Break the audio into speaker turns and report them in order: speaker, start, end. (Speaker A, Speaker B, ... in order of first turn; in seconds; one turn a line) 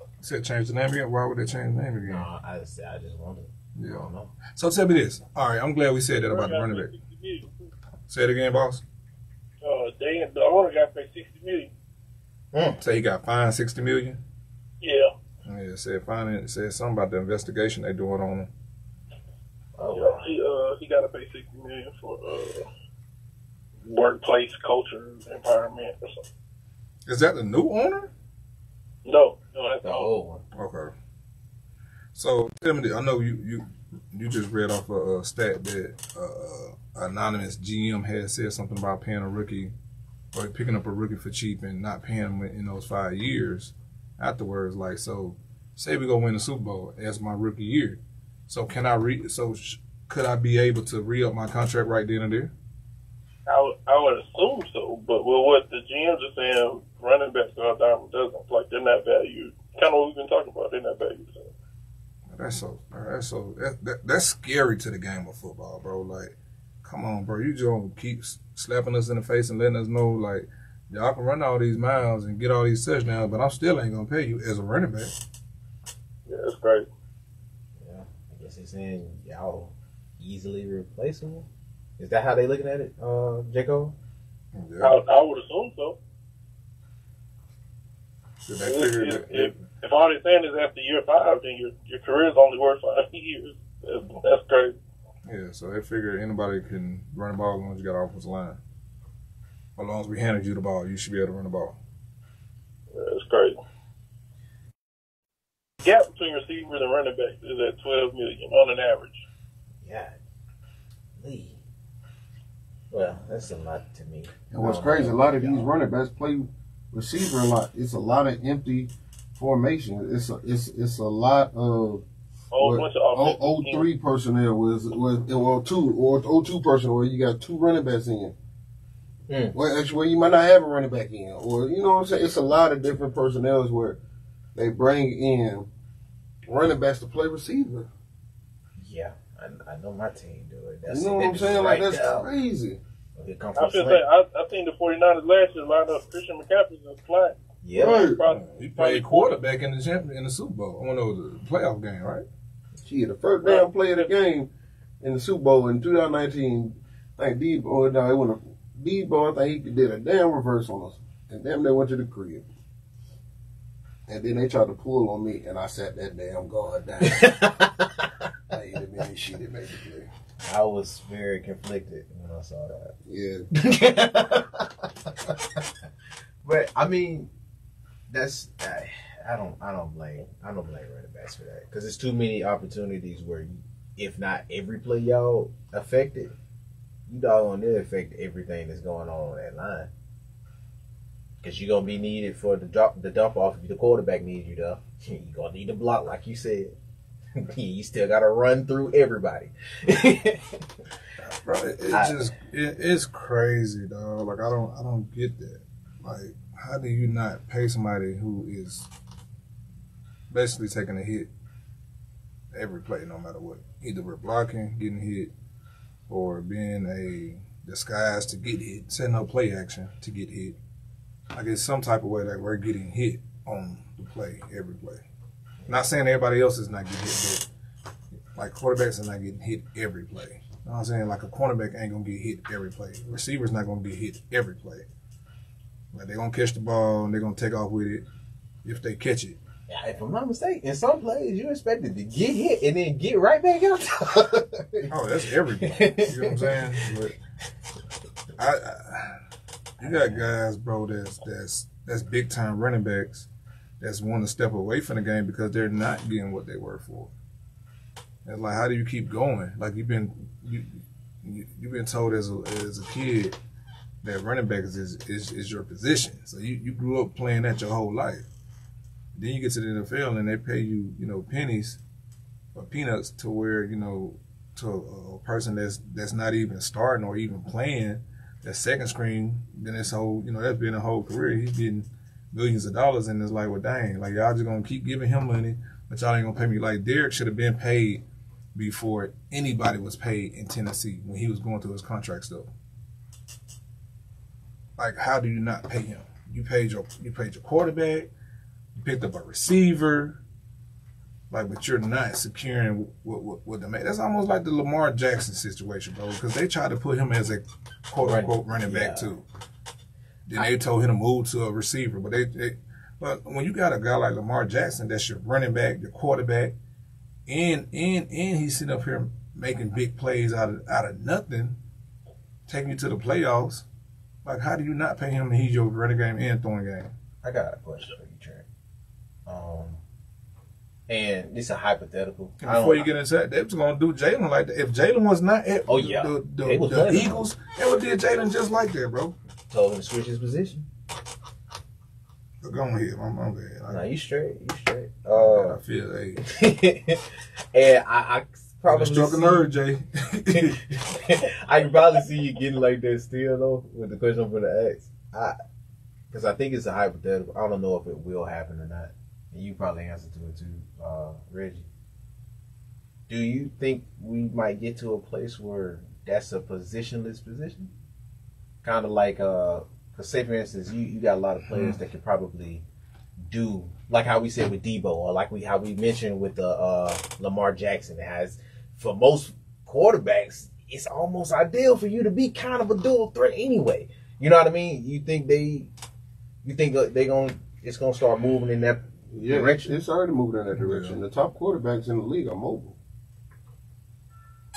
Speaker A: 0.2-2.3
Speaker B: 2.0-4.3
Speaker A: 3.7-6.9
Speaker C: 6.3-7.5
Speaker A: 8.1-8.8
Speaker C: 9.6-11.7
Speaker B: 12.5-12.8
Speaker A: 12.8-14.2
Speaker C: 14.8-15.1
Speaker A: 15.4-18.5
Speaker B: 19.8-20.4
Speaker C: 19.9-22.7
Speaker C: 23.8-26.2
Speaker A: 27.1-28.1
Speaker C: 29.0-30.1
Speaker B: 29.8-30.4
Speaker A: 30.5-30.9
Speaker A: 32.1-39.7
Speaker A: 40.3-52.5
Speaker C: 53.5-61.5
Speaker A: 62.3-75.1
Speaker C: 76.3-76.9
Speaker B: 77.8-81.5
Speaker B: 82.0-84.0
Speaker A: 84.5-85.0
Speaker C: 84.8-86.0
Speaker A: 88.5-89.6
Speaker C: 88.6-94.8
Speaker A: 95.2-98.6
Speaker A: 99.8-101.8
Speaker C: 102.9-103.6
Speaker C: 105.8-109.2
Speaker B: 109.8-110.2
Speaker B: 111.2-111.6
Speaker B: 112.9-115.7
Speaker D: 114.5-122.0
Speaker C: 122.5-123.9
Speaker D: 122.6-128.3
Speaker B: 129.3-129.6
Speaker D: 129.5-134.0
Speaker D: 134.6-135.7
Speaker D: 136.4-137.9
Speaker B: 138.8-142.3
Speaker D: 140.9-142.8
Speaker B: 143.2-144.0
Speaker C: 143.5-149.4
Speaker B: 147.6-148.1
Speaker D: 147.8-148.2
Speaker A: 148.2-152.2
Speaker D: 152.8-154.5
Speaker C: 153.4-154.1
Speaker D: 155.0-162.4
Speaker D: 164.1-167.5
Speaker B: 167.0-168.1
Speaker D: 168.5-170.1
Speaker B: 170.4-172.9
Speaker D: 173.0-173.5
Speaker B: 173.5-175.3
Speaker B: 176.4-177.3
Speaker B: 178.1-186.3
Speaker B: 187.1-189.9
Speaker B: 191.4-196.8
Speaker B: 197.3-200.7
Speaker A: 201.2-208.9
Speaker B: 201.9-202.3
Speaker A: 210.3-211.3
Speaker A: 212.5-215.3
Speaker A: 216.1-220.6
Speaker A: 221.3-225.0
Speaker A: 225.7-227.5
Speaker A: 228.3-234.8
Speaker A: 235.9-238.1
Speaker A: 238.6-239.4
Speaker B: 239.7-246.6
Speaker A: 244.9-247.2
Speaker A: 248.4-249.2
Speaker B: 249.8-250.3
Speaker A: 249.8-253.3
Speaker A: 253.8-257.1
Speaker A: 258.2-263.4
Speaker A: 264.0-268.2
Speaker A: 269.1-271.8
Speaker A: 272.5-288.0
Speaker A: 288.5-292.5
Speaker A: 294.8-298.1
Speaker A: 298.8-300.2
Speaker A: 301.3-309.2
Speaker B: 308.0-309.1
Speaker A: 310.3-316.5
Speaker A: 317.3-321.6
Speaker A: 322.5-323.6
Speaker A: 324.2-326.9
Speaker B: 327.2-328.4
Speaker B: 329.2-329.8
Speaker B: 330.9-332.9
Speaker A: 332.4-339.1
Speaker B: 335.7-337.3
Speaker B: 339.5-340.6
Speaker A: 342.4-343.9
Speaker B: 343.7-345.6
Speaker A: 345.1-346.2
Speaker B: 346.2-349.5
Speaker A: 348.6-350.8
Speaker B: 350.3-355.4
Speaker B: 356.1-361.6
Speaker B: 363.1-367.7
Speaker B: 368.6-372.6
Speaker A: 371.5-371.8
Speaker B: 373.2-385.7
Speaker B: 386.4-389.7
Speaker D: 389.1-392.8
Speaker A: 390.5-391.0